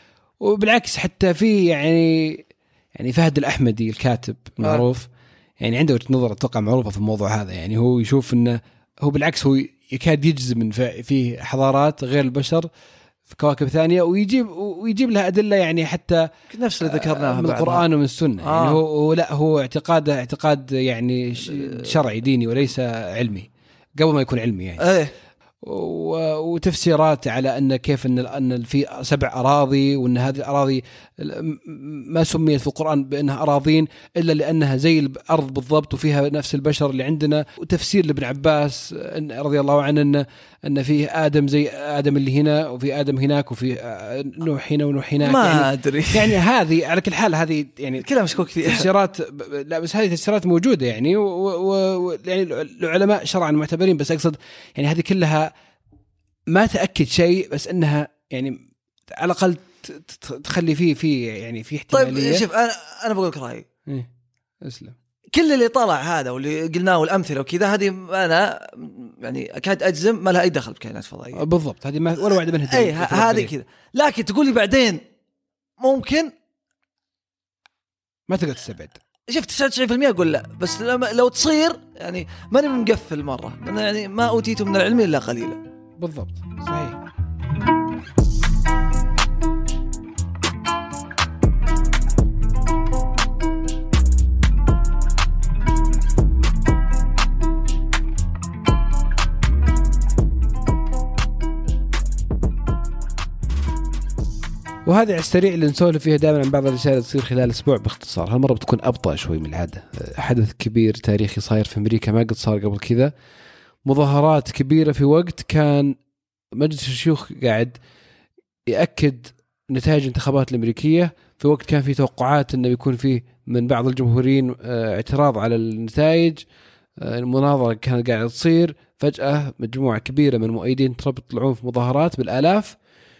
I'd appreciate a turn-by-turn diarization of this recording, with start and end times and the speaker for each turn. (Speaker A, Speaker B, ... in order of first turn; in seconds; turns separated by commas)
Speaker A: 0.4-12.7, Speaker A: 13.3-16.3, Speaker B: 16.5-17.9, Speaker A: 16.8-24.9, Speaker B: 18.4-18.8, Speaker B: 21.5-21.9, Speaker B: 24.8-25.1, Speaker A: 25.6-48.1, Speaker B: 45.2-46.4, Speaker B: 48.0-48.9, Speaker A: 48.6-55.5, Speaker A: 56.5-58.6, Speaker A: 59.2-62.5, Speaker B: 61.9-63.6, Speaker A: 64.6-65.0, Speaker B: 65.3-71.4, Speaker A: 71.3-73.5, Speaker B: 72.7-75.0, Speaker B: 75.8-76.3, Speaker A: 78.3-79.0, Speaker B: 79.3-85.6, Speaker A: 86.0-87.0, Speaker A: 104.9-113.1, Speaker A: 113.9-116.0, Speaker A: 116.5-117.8, Speaker A: 118.7-126.4, Speaker A: 127.0-132.8